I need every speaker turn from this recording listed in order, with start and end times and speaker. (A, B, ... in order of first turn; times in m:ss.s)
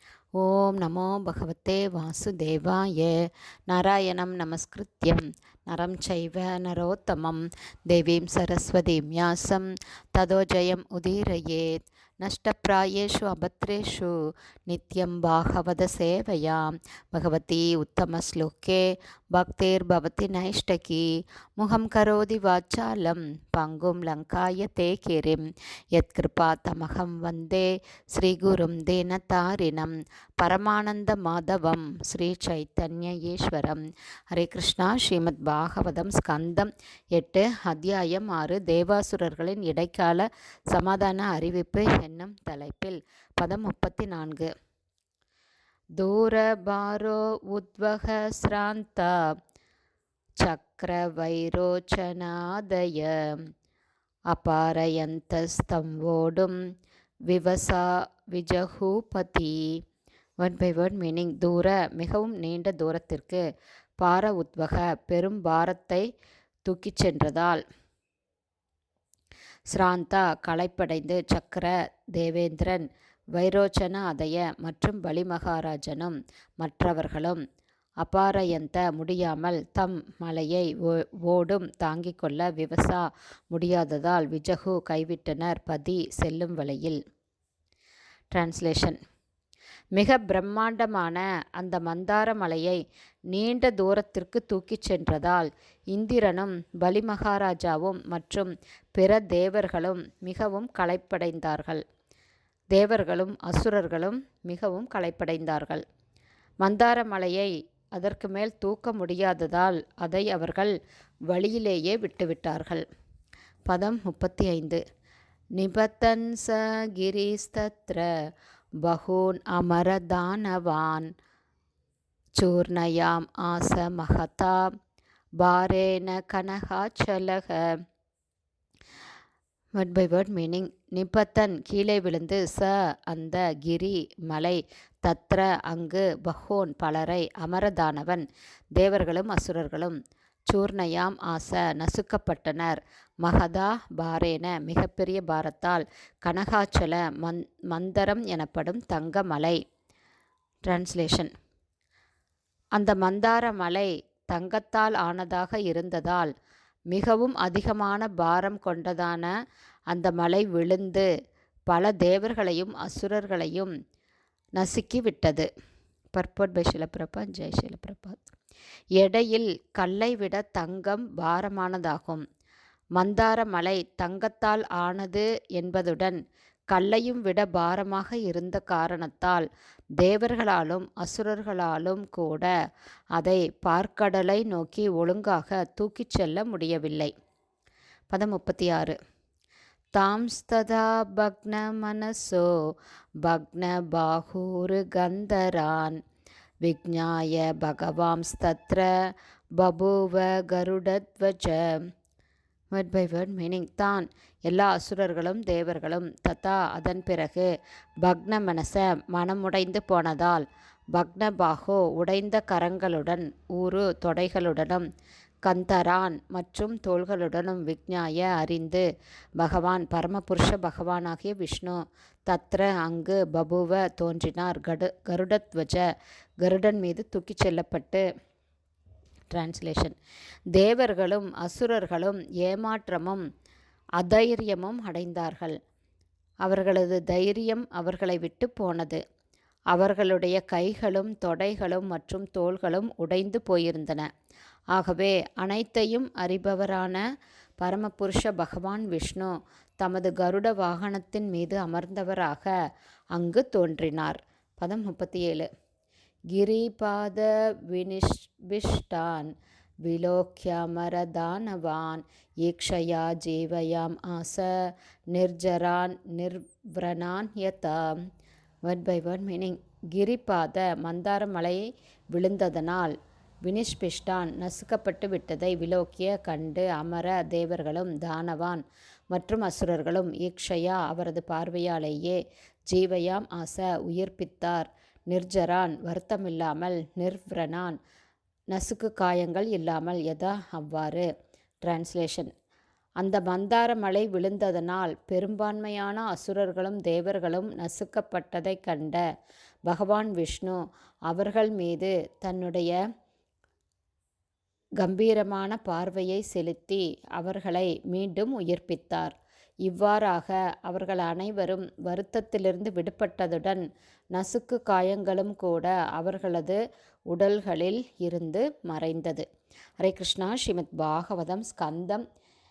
0:00.4-0:14.1 A
0:14.7-0:21.1 A
0:21.6-0:33.8 A
0:34.3-0:44.5 A
0:46.0-0:49.1 A
0:50.4-0:53.5 A
0:54.3-0:56.6 A
0:57.3-0:59.8 A
1:00.4-1:03.4 A
1:04.0-1:06.0 A
1:06.7-1:07.6 A
1:09.7-1:17.4 A
1:18.0-1:27.0 A
1:28.3-1:29.0 A
1:30.0-1:41.8 A
1:42.7-1:45.8 A
1:46.6-1:50.7 A
1:51.3-1:52.8 A
1:53.7-1:54.8 A
1:55.6-1:58.1 A
1:58.8-2:01.1 A
2:02.4-2:04.6 A
2:05.4-2:07.6 A
2:09.8-2:18.2 A
2:18.8-2:20.0 A
2:20.5-2:29.6 A
2:30.7-2:31.3 A
2:32.8-2:36.3 A
2:36.9-2:39.3 A
2:39.9-2:41.1 A
2:41.7-2:43.7 A
2:44.6-2:45.5 A
2:46.1-2:48.3 A
2:49.0-2:52.2 A
2:53.0-2:56.2 A
2:56.7-2:59.5 A
3:00.0-3:02.5 A
3:03.2-3:07.1 A
3:08.1-3:09.0 A
3:10.0-3:12.5 A
3:13.2-3:16.0 A
3:16.6-3:18.9 A
3:19.6-3:21.8 A
3:22.7-3:27.5 A
3:28.0-3:34.8 A
3:35.4-3:38.8 A
3:39.4-3:45.8 A
3:46.4-3:48.0 A
3:49.3-3:50.0 A
3:50.5-3:53.2 A
3:54.0-3:55.6 A
3:56.4-3:59.0 A
3:59.7-4:04.1 A
4:04.7-4:07.0 A
4:07.6-4:12.5 A
4:13.1-4:15.5 A
4:16.3-4:19.3 A
4:19.8-4:28.1 A
4:28.6-4:32.9 A
4:33.4-4:47.8 A
4:48.5-4:51.1 A
4:51.6-4:52.3 A
4:53.0-4:59.0 A
4:59.7-5:02.8 A
5:04.8-5:13.6 A
5:14.1-5:16.6 A
5:17.1-5:19.2 A
5:19.8-5:22.0 A